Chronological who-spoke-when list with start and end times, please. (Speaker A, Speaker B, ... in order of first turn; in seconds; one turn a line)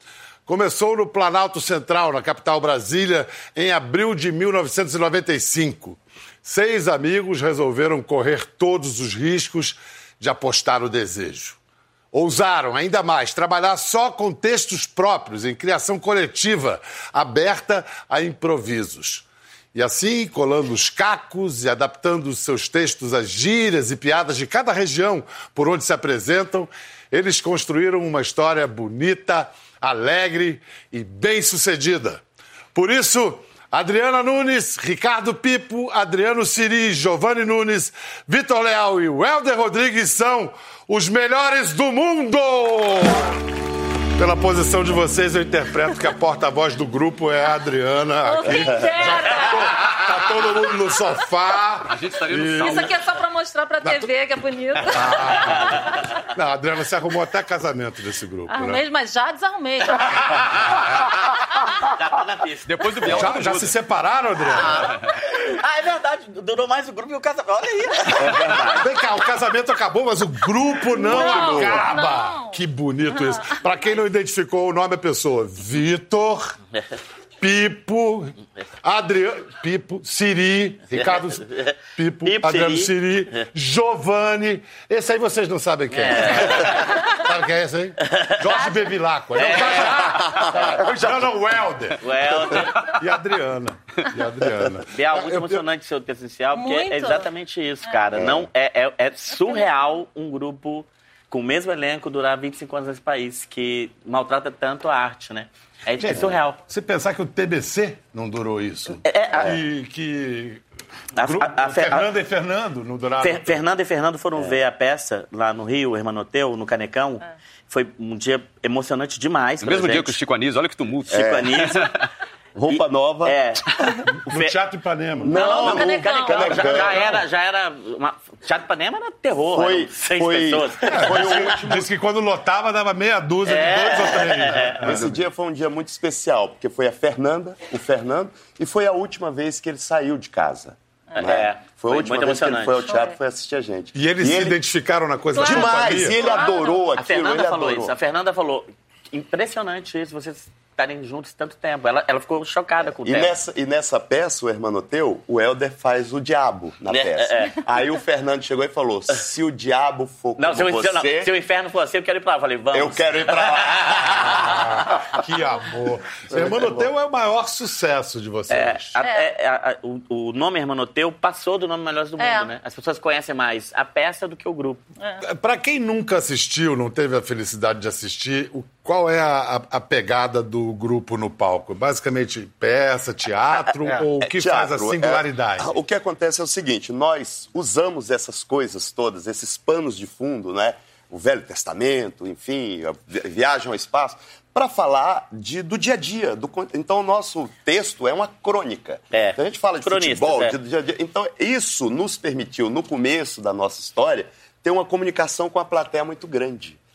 Speaker A: 0.5-11.6
Speaker A: 12.1-32.2
Speaker A: 32.7-43.4
Speaker A: 44.1-52.9
Speaker B: 48.2-49.7
Speaker C: 51.9-52.9
Speaker B: 52.6-56.0
Speaker A: 54.9-58.8
Speaker B: 58.5-60.0
Speaker A: 60.3-60.9
Speaker D: 61.9-63.3
Speaker C: 62.7-63.7
Speaker A: 63.0-64.9
Speaker D: 64.6-68.8
Speaker A: 68.6-76.5
Speaker B: 70.9-72.6
Speaker D: 71.2-71.7
Speaker B: 73.2-73.5
Speaker A: 77.4-95.6
Speaker D: 80.9-82.9
Speaker D: 85.9-87.0
Speaker B: 88.5-88.9
Speaker D: 89.4-90.2
Speaker D: 92.0-92.9
Speaker D: 94.9-106.6
Speaker B: 96.5-97.3
Speaker E: 98.1-98.5
Speaker B: 99.3-99.6
Speaker A: 106.0-110.6
Speaker D: 109.0-109.5
Speaker D: 111.2-112.1
Speaker A: 111.2-113.6
Speaker D: 113.2-120.2
Speaker C: 119.6-122.0
Speaker D: 121.1-121.9
Speaker E: 121.1-121.7
Speaker E: 122.5-123.3
Speaker D: 122.7-124.6
Speaker A: 124.2-125.4
Speaker E: 125.2-127.2
Speaker B: 125.3-126.9
Speaker D: 125.3-131.6
Speaker E: 129.5-131.8
Speaker A: 130.8-135.2
Speaker D: 133.4-135.0
Speaker E: 134.5-144.6
Speaker D: 141.1-142.9
Speaker B: 142.9-143.2
Speaker A: 143.9-146.3
Speaker B: 145.3-146.8
Speaker E: 145.4-147.9
Speaker D: 147.0-153.4
Speaker E: 153.0-161.3
Speaker D: 156.9-157.6
Speaker D: 160.4-164.4
Speaker E: 162.7-164.6
Speaker A: 164.4-168.9
Speaker E: 166.3-166.8
Speaker D: 168.5-174.8
Speaker B: 169.0-169.3
Speaker B: 172.2-172.5
Speaker A: 175.2-185.7
Speaker E: 184.2-206.8
Speaker D: 199.1-200.6